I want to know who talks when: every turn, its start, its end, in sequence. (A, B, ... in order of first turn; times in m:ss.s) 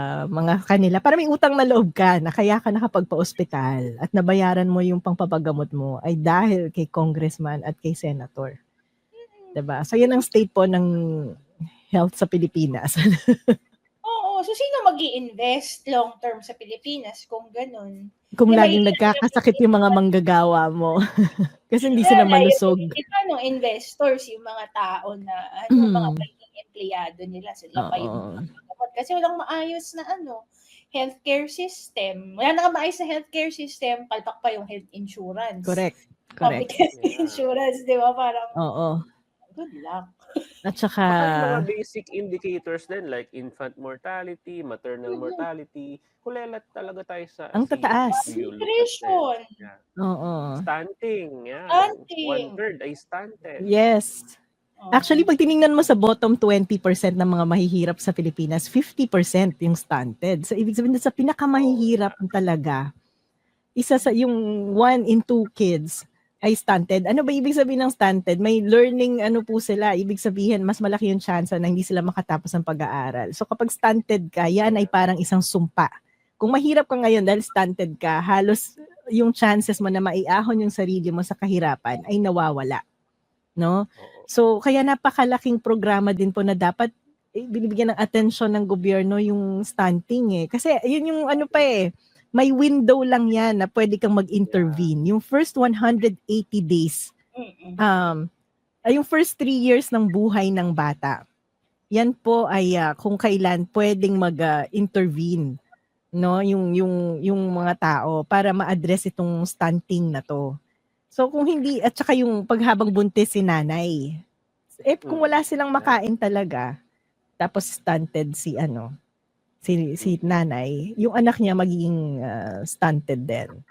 0:00.4-0:08.5 A
0:09.2-0:09.6 B
0:09.6-0:10.9 A
0:12.0-0:13.0 A
0:14.1-0:18.0 B
0:18.4-0:21.0 A
0:18.5-0:20.0 B
0:21.7-0:22.9 A
0:21.8-0:22.3 C
0:22.0-0:30.4 B
0:25.7-0:26.2 A
0:27.8-0:28.4 A
0:30.9-0:35.8 B
0:35.6-0:36.7 A
0:36.4-0:38.6 B
0:36.9-0:37.4 C
0:38.6-0:39.0 A
0:39.5-0:40.1 B
0:40.7-0:41.6 A
0:41.1-0:49.8 C
0:45.1-0:45.4 B
0:47.6-0:48.3 A
0:48.1-0:49.4 B
0:50.0-0:50.6 A
0:50.6-0:53.7 C
0:51.7-0:52.6 B
0:53.7-0:54.3 A
0:54.8-0:55.3 B
0:55.0-1:02.8 A
1:01.5-1:02.2 C
1:03.8-1:15.9 A
1:14.6-1:15.0 C
1:16.4-1:18.6 A
1:19.2-1:22.8 A
1:24.0-1:24.3 C
1:24.3-1:26.9 A
1:27.4-1:31.8 A
1:32.4-1:37.0 A
1:34.4-1:34.9 C
1:37.4-1:37.8 B
1:37.8-1:38.2 A
1:38.9-1:41.2 A
1:42.0-1:45.4 A
1:46.2-1:50.4 A
1:51.1-1:53.9 A
1:54.9-1:56.6 A
1:55.0-1:56.0 C
1:57.4-1:58.8 A
1:59.6-2:03.5 A
2:00.0-2:00.3 C